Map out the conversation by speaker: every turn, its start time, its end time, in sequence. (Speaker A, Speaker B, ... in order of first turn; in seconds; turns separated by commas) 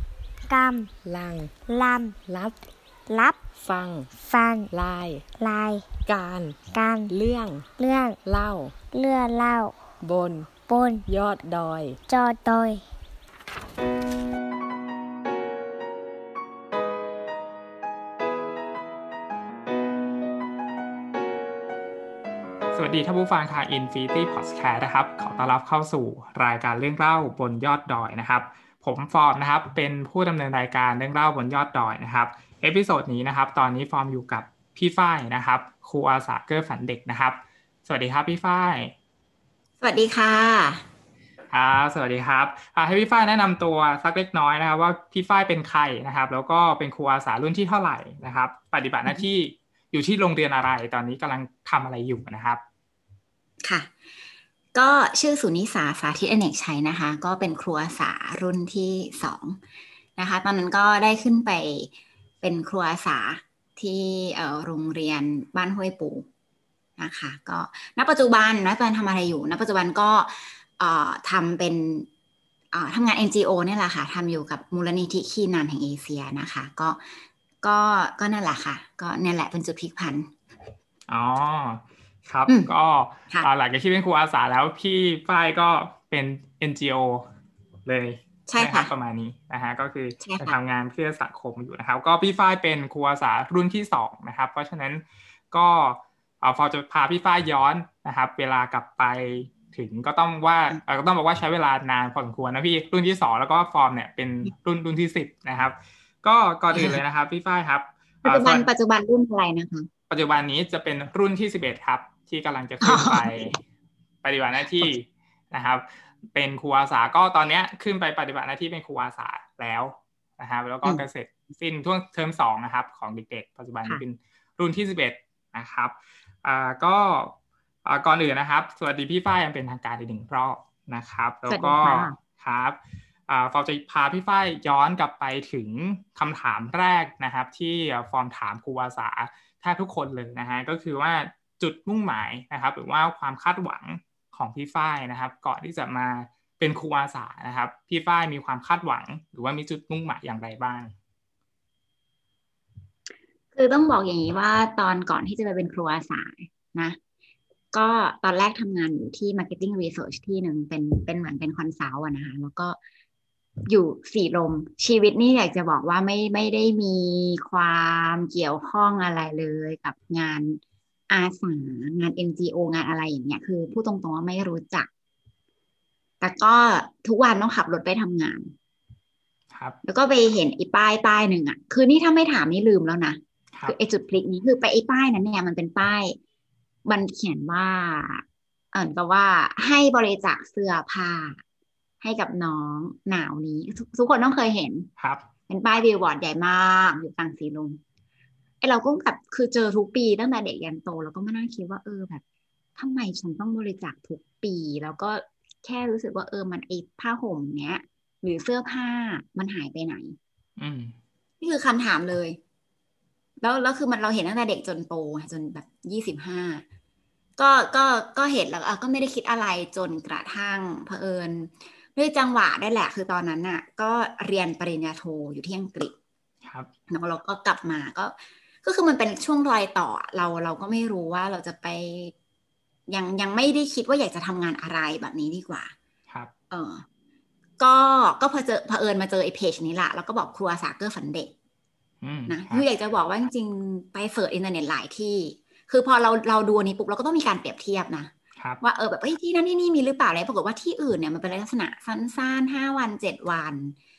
Speaker A: 0.5-0.9, Speaker B: 1.0-1.5, Speaker A: 1.7-2.2, Speaker B: 2.3-2.5, Speaker A: 3.1-3.4, Speaker B: 3.6-4.1, Speaker A: 4.2-4.7, Speaker B: 4.7-5.2, Speaker A: 5.4-5.9, Speaker B: 6.0-7.7, Speaker A: 6.7-7.1, Speaker A: 7.8-8.2, Speaker B: 8.2-8.7, Speaker A: 8.9-9.8, Speaker B: 10.0-10.5, Speaker A: 10.7-11.1, Speaker B: 11.1-12.0, Speaker A: 12.1-12.8, Speaker C: 22.7-38.9, Speaker D: 39.8-40.8, Speaker C: 41.5-52.6, Speaker D: 53.6-53.9, Speaker D: 54.7-59.6, Speaker D: 60.2-61.9, Speaker D: 62.4-66.2, Speaker D: 67.0-72.1, Speaker D: 72.7-80.3, Speaker C: 81.1-87.3, Speaker C: 87.8-108.7, Speaker D: 88.5-88.9, Speaker D: 90.2-90.5, Speaker D: 108.2-109.9, Speaker C: 110.1-113.5, Speaker D: 112.8-113.6, Speaker C: 114.2-150.9, Speaker D: 131.5-132.2, Speaker D: 153.5-157.0, Speaker D: 157.7-162.8, Speaker D: 163.7-174.9, Speaker D: 176.2-178.5, Speaker C: 179.5-179.8, Speaker D: 179.8-186.2, Speaker D: 186.8-191.4, Speaker D: 192.0-194.9, Speaker C: 195.0-195.2, Speaker D: 195.5-197.8, Speaker D: 198.6-202.2, Speaker D: 202.8-210.2, Speaker C: 210.6-210.9, Speaker D: 211.4-212.4, Speaker D: 213.4-216.6, Speaker D: 217.4-225.9, Speaker C: 226.4-226.7, Speaker D: 226.9-232.1, Speaker D: 232.9-235.7, Speaker D: 236.5-236.8, Speaker D: 237.6-241.3, Speaker C: 242.0-242.6, Speaker D: 242.3-253.7, Speaker C: 248.4-248.6